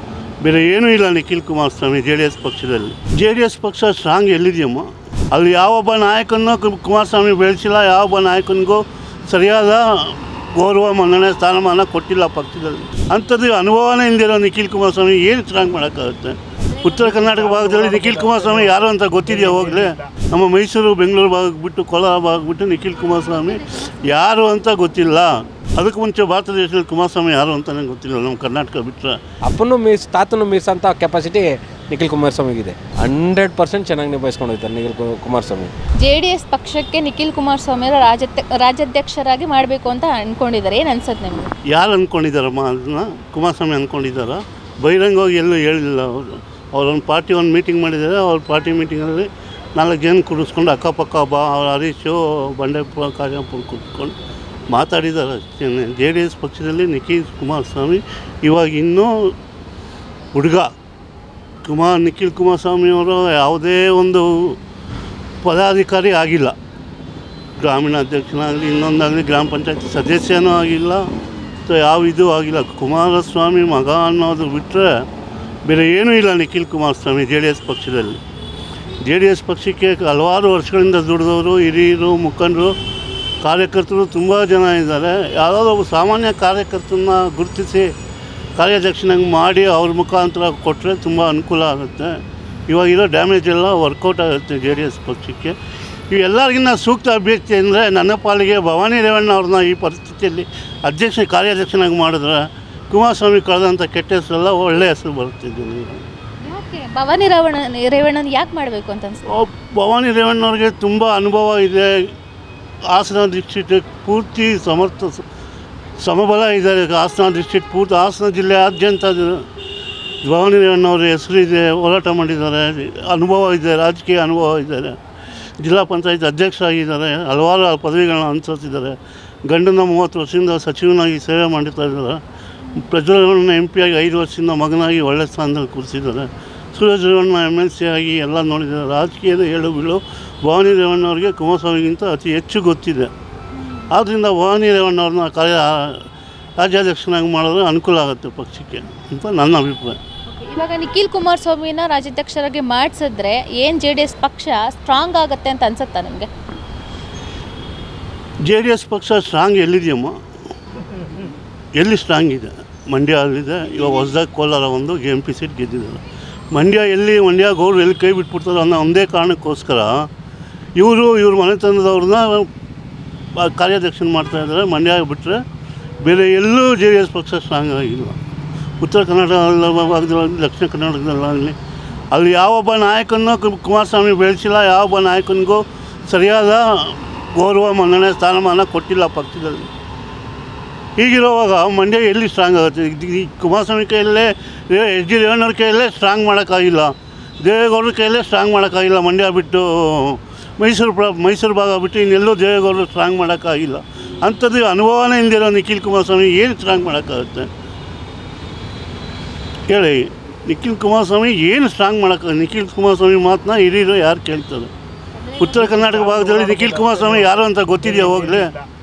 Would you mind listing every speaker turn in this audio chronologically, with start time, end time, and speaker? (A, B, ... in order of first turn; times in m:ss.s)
0:00.4-0:29.2 A
0:16.7-0:17.4 B
0:23.0-0:24.1 B
0:29.5-0:35.7 C
0:36.0-0:41.5 B
0:41.7-0:54.1 A
0:54.7-0:59.3 A
1:00.3-1:00.7 A
1:01.6-1:04.6 A
1:05.4-1:06.6 A
1:07.6-1:11.1 A
1:11.6-1:15.0 A
1:15.6-1:18.2 A
1:19.0-1:22.7 A
1:23.4-1:27.9 A
1:28.6-1:35.5 A
1:36.1-1:46.0 A
1:46.4-1:49.4 B
1:49.3-1:52.0 A
1:52.9-1:55.2 A
1:56.0-1:59.4 A
2:00.2-2:05.0 A
2:05.6-2:12.2 A
2:12.8-2:23.1 A
2:23.6-2:23.8 B
2:23.9-2:26.0 A
2:26.6-2:30.0 A
2:30.3-2:36.3 B
2:38.4-2:40.2 A
2:41.8-2:50.1 A
2:50.8-2:52.5 A
2:53.3-2:55.4 A
2:56.0-2:58.2 A
2:58.8-3:01.6 A
3:02.1-3:09.7 A
3:11.0-3:27.5 A
3:29.7-3:34.7 A
3:35.2-3:36.2 B
3:35.4-3:38.5 A